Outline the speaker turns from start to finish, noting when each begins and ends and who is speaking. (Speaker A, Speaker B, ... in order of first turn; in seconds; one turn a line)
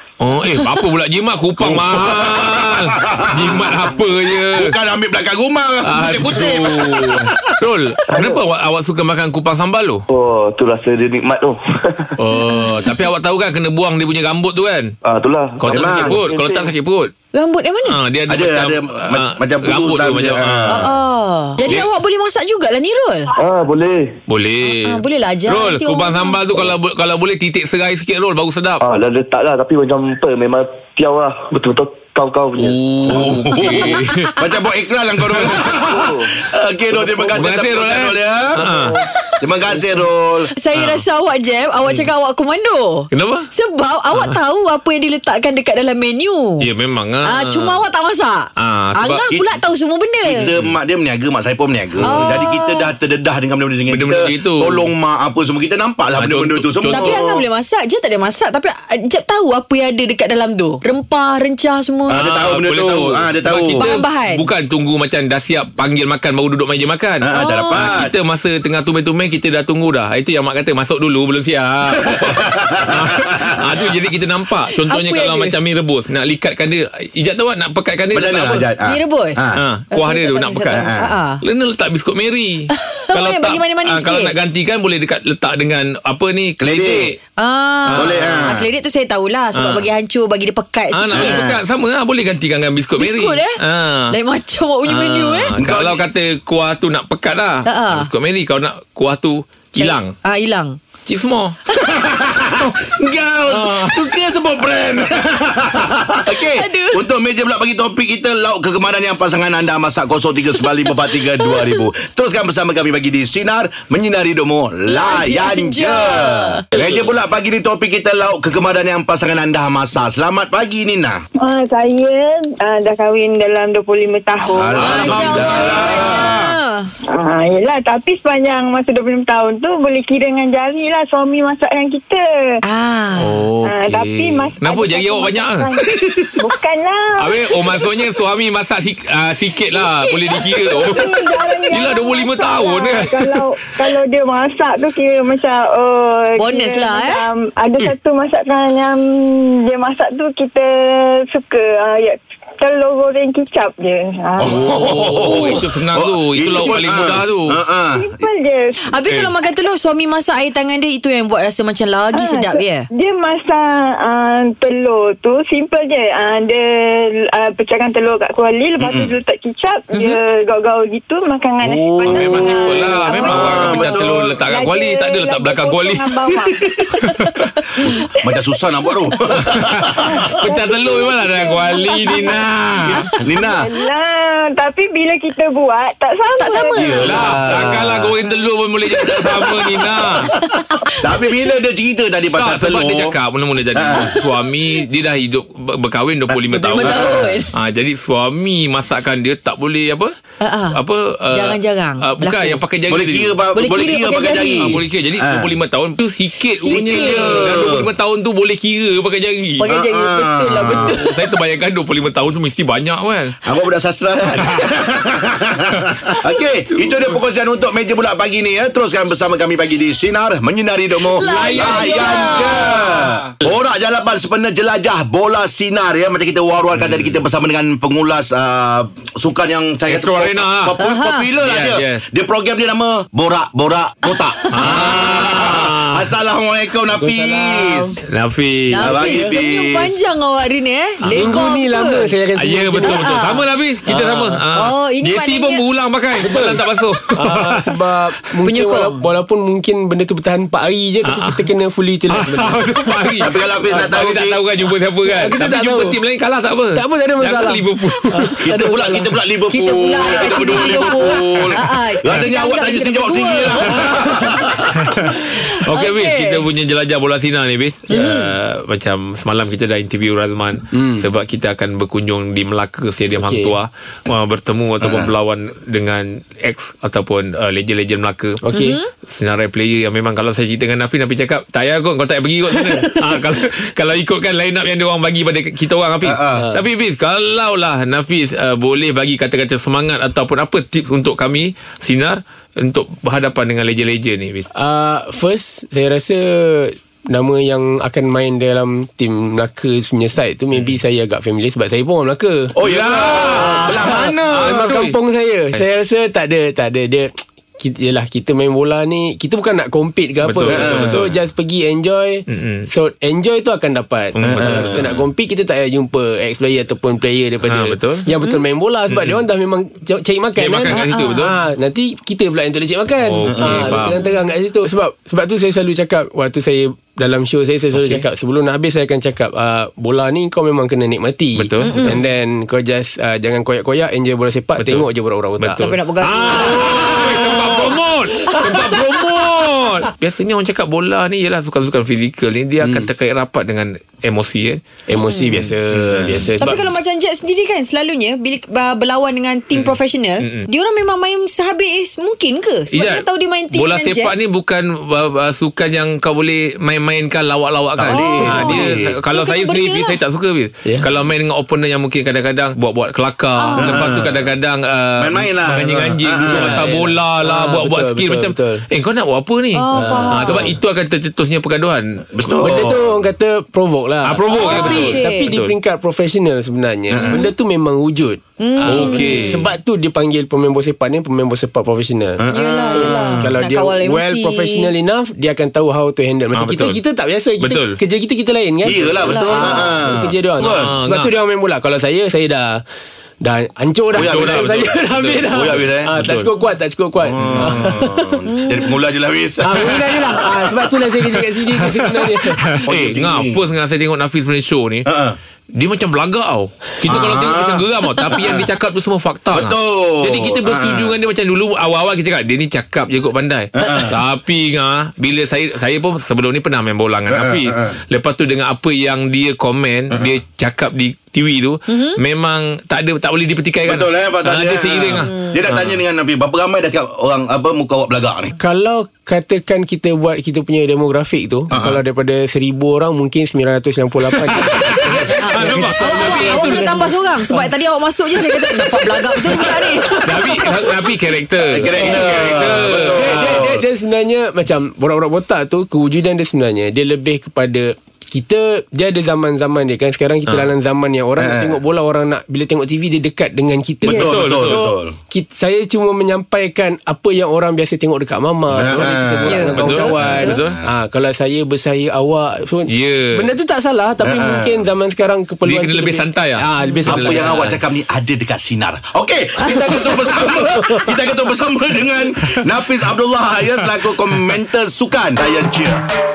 Speaker A: 0.2-4.7
Speaker B: 1.6-3.7
Speaker B: 4.5-7.4
Speaker A: 5.8-10.0
Speaker C: 8.1-8.4
Speaker C: 10.1-12.1
Speaker A: 12.2-14.9
Speaker C: 15.0-16.7
Speaker A: 15.6-17.1
Speaker B: 15.7-16.1
Speaker D: 17.3-18.0
Speaker A: 17.9-20.8
Speaker B: 18.3-20.9
Speaker D: 20.7-23.3
Speaker C: 23.4-24.2
Speaker A: 24.3-28.8
Speaker D: 24.7-26.4
Speaker C: 28.8-33.6
Speaker A: 32.5-34.3
Speaker B: 33.0-38.5
Speaker D: 33.9-34.3
Speaker A: 35.3-35.5
Speaker C: 35.5-36.3
Speaker C: 36.9-37.6
Speaker A: 37.3-38.9
Speaker C: 38.6-39.0
Speaker B: 39.4-40.5
Speaker D: 40.5-46.7
Speaker A: 40.7-41.0
Speaker A: 43.1-43.4
Speaker A: 46.6-47.8
Speaker D: 47.3-50.5
Speaker A: 48.6-49.2
Speaker B: 50.2-57.4
Speaker A: 50.4-50.8
Speaker D: 52.0-52.9
Speaker A: 52.0-52.4
Speaker A: 53.9-54.9
Speaker A: 56.2-57.2
Speaker D: 56.9-62.2
Speaker B: 62.1-63.9
Speaker A: 62.1-78.6
Speaker D: 63.8-64.5
Speaker B: 67.2-68.1
Speaker D: 67.3-68.0
Speaker B: 72.3-72.6
Speaker D: 74.7-75.5
Speaker B: 78.1-79.6
Speaker D: 78.8-81.4
Speaker A: 79.5-80.9
Speaker B: 80.7-81.1
Speaker A: 81.4-87.2
Speaker D: 82.7-84.3
Speaker B: 86.6-87.1
Speaker D: 87.4-91.4
Speaker A: 87.8-88.6
Speaker B: 87.9-88.7
Speaker A: 89.5-89.8
Speaker A: 90.9-94.1
Speaker B: 91.1-91.6
Speaker D: 93.0-93.6
Speaker D: 94.1-95.5
Speaker A: 94.9-100.1
Speaker B: 95.6-96.0
Speaker D: 97.7-98.1
Speaker D: 99.8-100.8
Speaker A: 101.0-101.5
Speaker D: 101.7-102.0
Speaker B: 101.9-121.2
Speaker A: 103.5-104.0
Speaker D: 106.2-107.0
Speaker D: 110.6-111.8
Speaker D: 114.9-116.7
Speaker E: 121.4-125.7
Speaker D: 124.5-126.9
Speaker B: 124.5-126.5
Speaker A: 124.8-125.9
Speaker E: 127.1-132.2
Speaker D: 132.6-133.4
Speaker A: 133.2-136.4
Speaker E: 133.6-137.9
Speaker A: 137.2-143.5
Speaker E: 140.3-155.1
Speaker D: 146.4-147.2
Speaker B: 154.4-158.2
Speaker A: 154.5-157.6
Speaker E: 157.9-159.0
Speaker D: 158.9-162.9
Speaker A: 159.1-159.3
Speaker E: 162.1-176.8
Speaker B: 168.8-169.1
Speaker B: 171.6-174.2
Speaker A: 172.1-176.2
Speaker A: 177.0-177.9
Speaker B: 178.2-180.3
Speaker A: 179.3-183.1
Speaker E: 180.0-182.4
Speaker B: 182.8-183.7
Speaker E: 183.3-187.1
Speaker D: 186.4-187.1
Speaker B: 186.8-188.1
Speaker A: 187.0-190.2
Speaker B: 188.9-190.4
Speaker D: 190.3-190.9
Speaker B: 191.0-193.2
Speaker A: 192.4-200.1
Speaker B: 193.7-194.1
Speaker D: 193.9-194.2
Speaker D: 196.5-197.5
Speaker B: 196.7-197.4
Speaker D: 200.4-200.8
Speaker A: 200.7-203.3
Speaker D: 201.3-202.6
Speaker B: 202.9-205.5
Speaker D: 203.5-204.8
Speaker A: 204.6-209.7
Speaker D: 206.6-207.5
Speaker B: 206.7-207.8
Speaker D: 209.6-211.2
Speaker B: 209.7-210.9
Speaker A: 210.7-213.4
Speaker B: 213.4-238.0
Speaker A: 214.4-214.7
Speaker A: 215.7-216.2
Speaker A: 216.7-217.2
Speaker D: 221.1-222.9
Speaker A: 221.2-223.5
Speaker A: 226.7-227.2
Speaker A: 229.9-230.8
Speaker D: 230.8-231.3
Speaker A: 231.4-232.0
Speaker D: 234.4-235.2
Speaker A: 234.5-236.1
Speaker F: 237.0-238.0
Speaker A: 238.1-239.0
Speaker D: 238.7-242.1
Speaker B: 238.8-239.9
Speaker F: 238.9-239.4
Speaker A: 241.0-241.4
Speaker F: 241.1-243.1
Speaker A: 242.3-247.7
Speaker D: 242.8-243.4
Speaker F: 243.8-244.5
Speaker D: 244.5-245.6
Speaker F: 246.2-253.1
Speaker D: 248.4-249.0
Speaker A: 251.0-251.4
Speaker A: 252.1-258.4
Speaker B: 253.2-254.4
Speaker F: 253.7-254.0
Speaker F: 255.0-256.0
Speaker F: 256.7-259.2
Speaker B: 258.4-265.0
Speaker D: 259.5-264.3
Speaker F: 260.0-261.1
Speaker F: 263.7-264.4
Speaker A: 264.8-278.4
Speaker D: 265.2-266.5
Speaker D: 267.9-268.3
Speaker F: 267.9-268.3
Speaker F: 270.7-271.1
Speaker F: 273.1-273.6
Speaker B: 274.8-275.1
Speaker F: 278.4-278.8
Speaker D: 278.5-278.9
Speaker A: 279.1-294.5
Speaker B: 286.0-286.4
Speaker F: 294.5-335.8
Speaker B: 302.6-304.7
Speaker A: 302.6-305.0
Speaker A: 310.2-311.1
Speaker B: 310.5-311.1
Speaker A: 312.3-312.6
Speaker A: 314.1-314.9
Speaker B: 314.2-315.0
Speaker A: 317.5-318.1
Speaker A: 318.9-319.2
Speaker A: 320.4-321.4
Speaker D: 320.7-321.2
Speaker A: 323.0-324.0
Speaker B: 323.3-323.8
Speaker A: 327.8-328.0
Speaker A: 331.4-332.0
Speaker D: 331.6-332.0
Speaker A: 334.6-344.6
Speaker D: 335.6-338.8
Speaker F: 336.3-336.7
Speaker B: 336.7-337.7
Speaker F: 342.6-342.9
Speaker F: 344.9-346.6
Speaker D: 344.9-345.5
Speaker A: 345.3-346.3
Speaker D: 346.4-354.1
Speaker A: 349.5-350.4
Speaker A: 352.7-372.0
Speaker B: 357.8-358.9
Speaker D: 357.9-360.0
Speaker F: 360.6-360.9
Speaker D: 363.4-363.9
Speaker B: 363.6-364.3
Speaker B: 365.0-366.6
Speaker F: 366.2-368.6
Speaker D: 369.5-370.5
Speaker B: 369.7-370.1
Speaker F: 369.9-370.5
Speaker B: 372.1-373.0
Speaker F: 372.3-392.6
Speaker A: 374.0-375.5
Speaker D: 374.3-375.3
Speaker B: 376.9-377.3
Speaker D: 377.0-377.3
Speaker D: 378.4-379.4
Speaker A: 378.6-379.5
Speaker B: 382.2-383.2
Speaker D: 382.3-384.7
Speaker A: 386.3-386.8
Speaker A: 387.4-387.7
Speaker B: 388.6-390.8
Speaker D: 389.1-389.4
Speaker A: 390.4-391.1
Speaker F: 393.2-398.7
Speaker A: 393.9-396.3
Speaker B: 393.9-394.8
Speaker B: 395.3-396.0
Speaker B: 397.0-400.7
Speaker A: 397.2-397.7
Speaker F: 399.4-402.6
Speaker A: 401.0-404.9
Speaker B: 402.6-403.4
Speaker B: 404.9-405.1
Speaker A: 405.5-425.8
Speaker B: 406.9-408.4
Speaker B: 409.3-410.9
Speaker B: 413.6-414.0
Speaker B: 417.1-417.8
Speaker D: 421.7-422.0
Speaker B: 423.6-428.3
Speaker F: 428.4-437.5
Speaker B: 431.5-431.8
Speaker A: 434.4-436.8
Speaker D: 435.2-440.5
Speaker F: 439.1-440.7
Speaker A: 440.0-443.4
Speaker B: 441.5-443.6
Speaker F: 441.7-467.4
Speaker B: 451.2-451.6
Speaker A: 453.9-454.6
Speaker B: 453.9-454.9
Speaker B: 458.5-460.6
Speaker D: 458.8-460.4
Speaker A: 459.4-460.6
Speaker A: 462.7-463.3
Speaker B: 464.0-464.6
Speaker A: 465.4-467.6
Speaker B: 466.8-475.8
Speaker D: 469.5-469.9